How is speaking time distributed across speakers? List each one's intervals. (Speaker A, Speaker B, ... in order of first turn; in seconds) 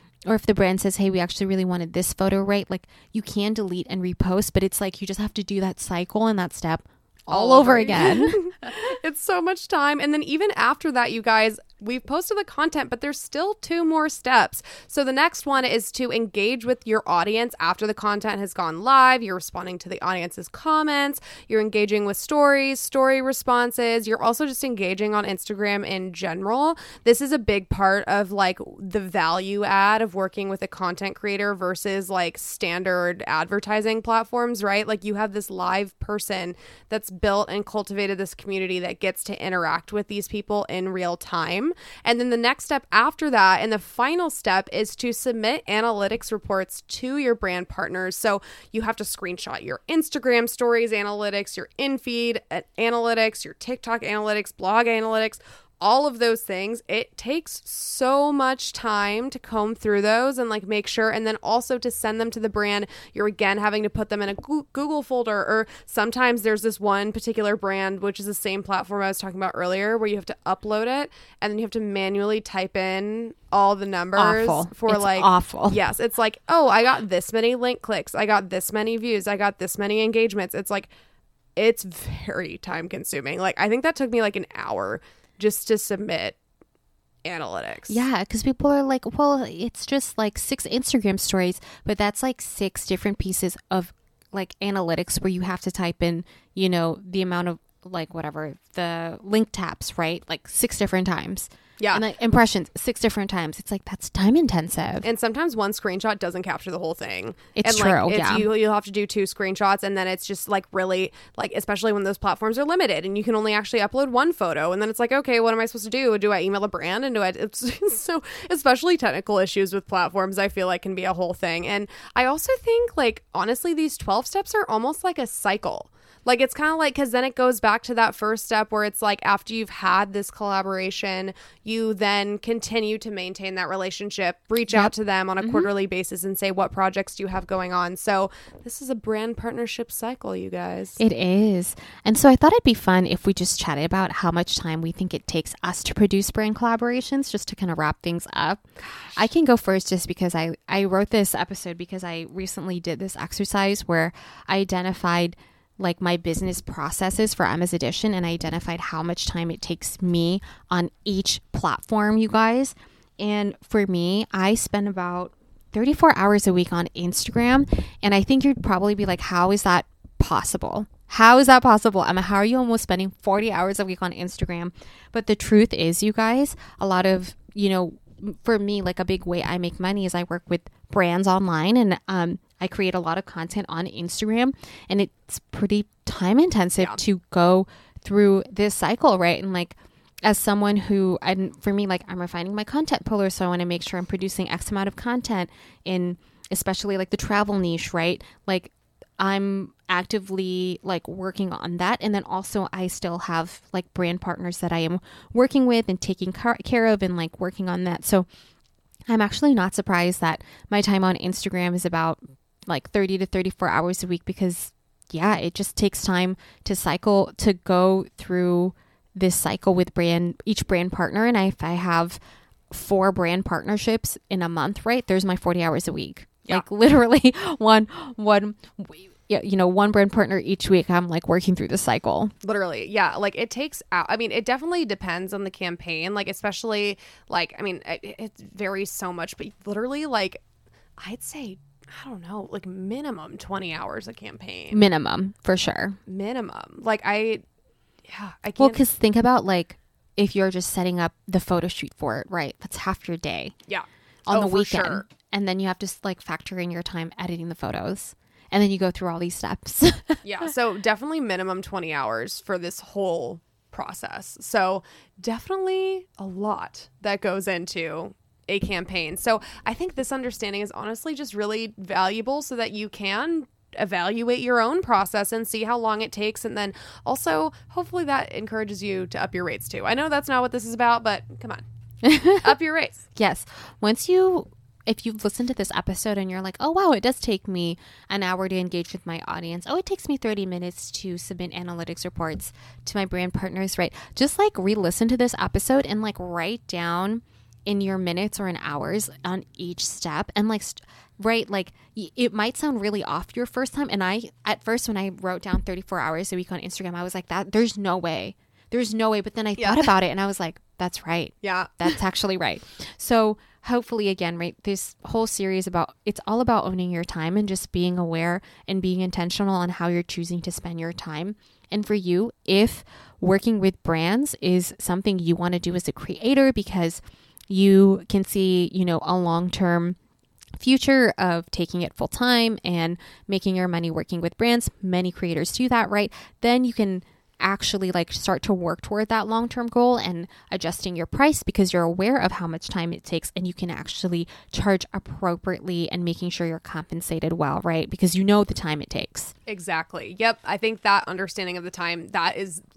Speaker A: 0.2-8.4, 74.2-75.8, 87.9-105.0, 107.6-108.5, 134.7-135.7, 141.0-148.6, 149.2-208.3, 209.1-222.2, 222.7-232.3, 244.7-246.0, 248.6-253.5, 254.3-260.4, 282.0-282.5, 283.1-330.0, 330.6-349.3
Speaker B: 7.3-80.9, 81.5-86.4, 87.2-88.0, 105.0-141.0, 148.8-149.1, 232.4-240.4, 241.0-244.8, 246.1-247.4, 248.1-248.8, 253.7-255.1, 260.2-281.6, 282.4-283.1, 309.6-309.9, 311.4-312.0, 349.5-352.6